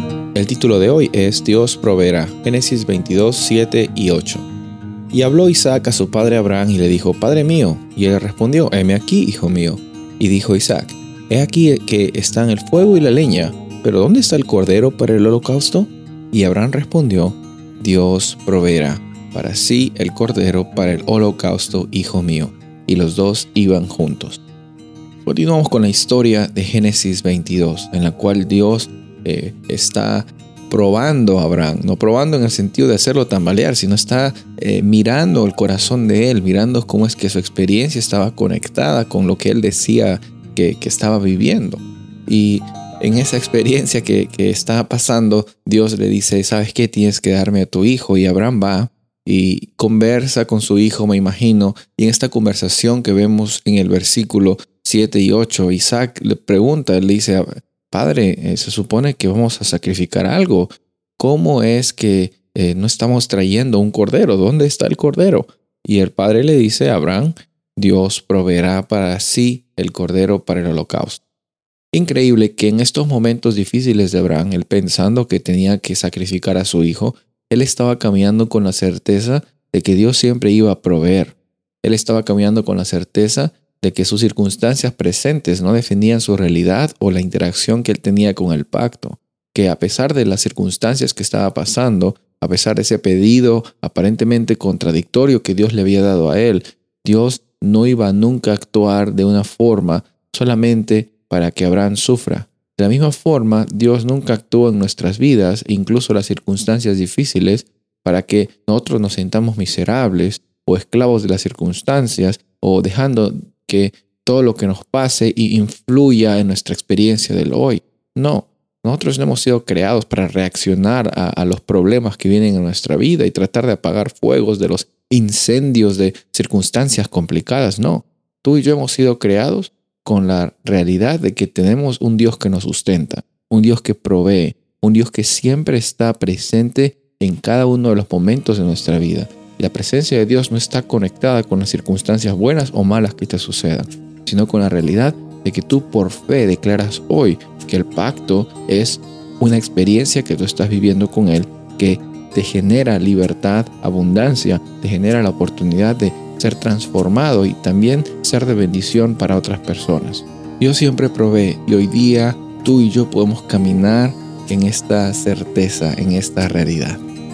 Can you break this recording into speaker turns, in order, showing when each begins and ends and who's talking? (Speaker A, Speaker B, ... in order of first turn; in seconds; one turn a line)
Speaker A: 0.3-4.5
Speaker A: 5.1-24.4
Speaker A: 25.3-71.2
Speaker A: 71.9-167.0